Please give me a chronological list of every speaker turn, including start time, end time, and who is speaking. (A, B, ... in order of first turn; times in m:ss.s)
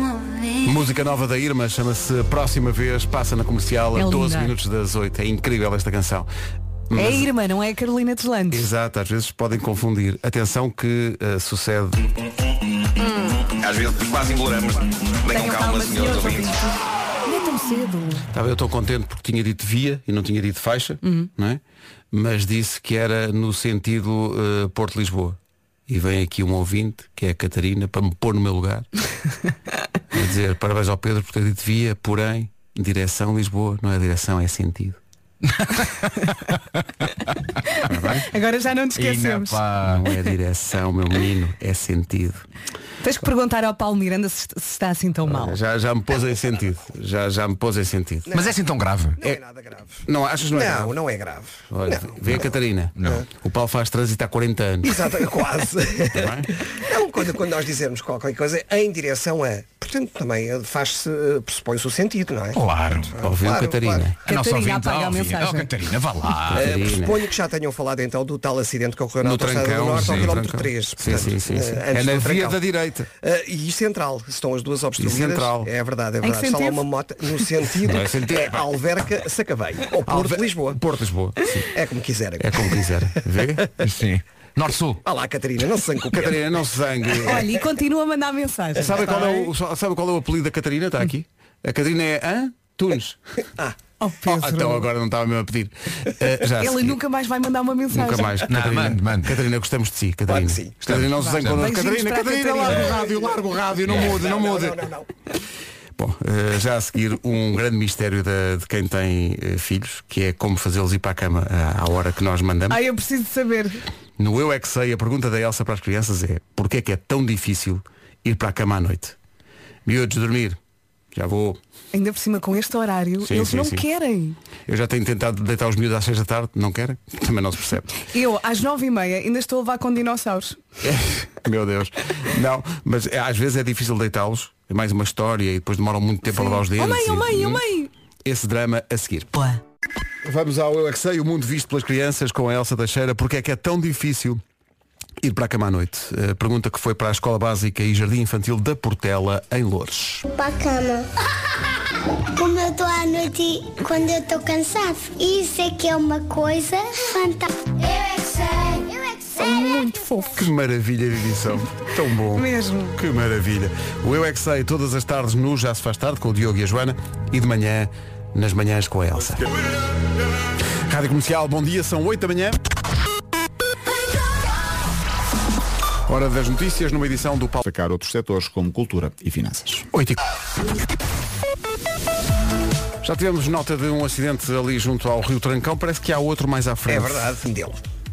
0:00.6-0:06.3 A
0:04.0-0:04.5 B
0:06.9-0:07.3 A
0:06.9-0:08.7 B
0:08.5-0:12.1 A
0:13.1-0:16.8 C
0:15.3-0:16.5 B
0:17.2-0:18.3 B
0:18.3-0:21.6 A
0:22.1-0:28.8 A
0:30.1-0:35.0 A
0:35.6-0:35.9 D
0:37.6-0:39.6 B
0:37.8-0:38.3 A
0:39.0-0:40.0 D
0:39.8-0:42.4 A
0:43.0-0:45.6 B
0:45.2-0:48.3 A
0:48.3-0:48.6 E
0:48.3-0:49.2 D
0:49.2-0:52.1 E
0:50.0-0:50.9 A
0:51.7-0:55.1 A
0:53.0-0:53.2 D
0:54.8-1:04.1 E
0:56.1-0:56.5 A
1:02.5-1:03.1 D
1:03.2-1:04.2 A
1:04.2-1:05.7 B
1:04.2-1:06.7 D
1:06.5-1:07.2 A
1:06.5-1:12.6 E
1:09.2-1:13.1 A
1:09.9-1:10.4 D
1:13.2-1:20.8 E
1:15.0-1:15.7 A
1:16.2-1:16.8 B
1:17.8-1:18.6 A
1:20.0-1:21.7 A
1:21.7-1:22.8 E
1:22.4-1:23.6 A
1:23.8-1:24.2 C
1:24.6-1:25.0 D
1:25.0-1:26.4 E
1:26.1-1:27.5 A
1:27.2-1:29.5 B
1:28.8-1:33.2 A
1:34.0-1:34.9 B
1:34.2-1:37.0 A
1:36.6-1:38.4 B
1:37.9-1:44.8 A
1:38.5-1:39.4 D
1:40.3-1:40.8 E
1:40.9-1:41.6 D
1:41.2-1:42.9 B
1:42.7-1:45.1 E
1:46.0-1:52.8 A
1:52.7-1:53.8 B
1:54.2-1:59.2 A
1:59.8-2:00.6 A
2:01.1-2:01.6 A
2:01.9-2:04.4 B
2:03.2-2:03.8 A
2:04.7-2:07.9 A
2:08.0-2:10.6 B
2:10.8-2:17.6 A
2:16.3-2:17.9 B
2:18.2-2:19.4 A
2:20.2-2:24.4 A
2:25.2-2:30.2 A
2:30.3-2:31.1 F
2:32.3-2:40.4 F
2:39.4-2:40.4 B
2:40.3-2:49.5 A
2:42.3-2:43.0 B
2:50.9-2:52.6 A
2:56.1-2:57.6 A
2:57.6-2:59.8 G
2:59.9-3:00.2 A
3:03.0-3:07.4 A
3:06.9-3:07.8 E